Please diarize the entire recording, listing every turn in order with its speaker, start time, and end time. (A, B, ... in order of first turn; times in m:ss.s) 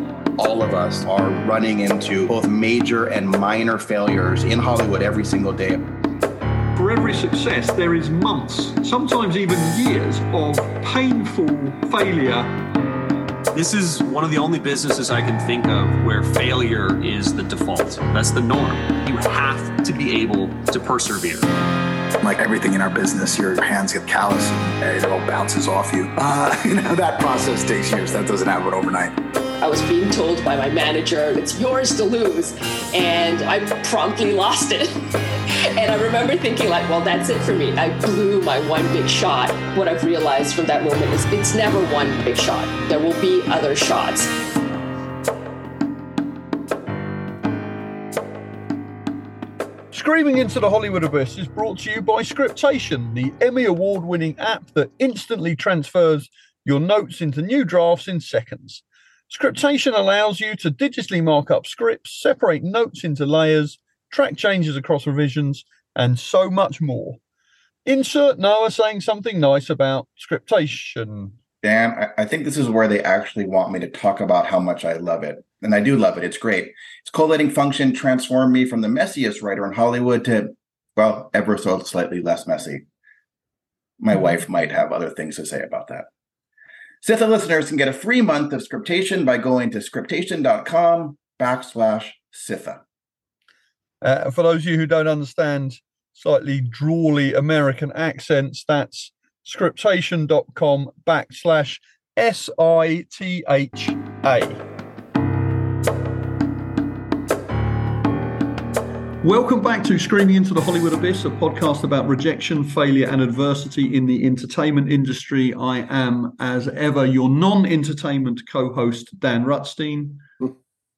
0:00.4-0:05.8 A
0:06.7-0:12.5 B
0:13.5-0:21.5 C
0:22.2-0:29.1 D
0:29.6-0:35.0 E
0:35.7-0:44.3 E
0:49.9-1:07.2 B
1:07.8-1:11.4 B
1:11.6-1:22.8 A
1:24.0-1:26.1 A
1:27.0-1:32.8 A
1:34.0-1:44.6 B
1:49.2-2:00.2 B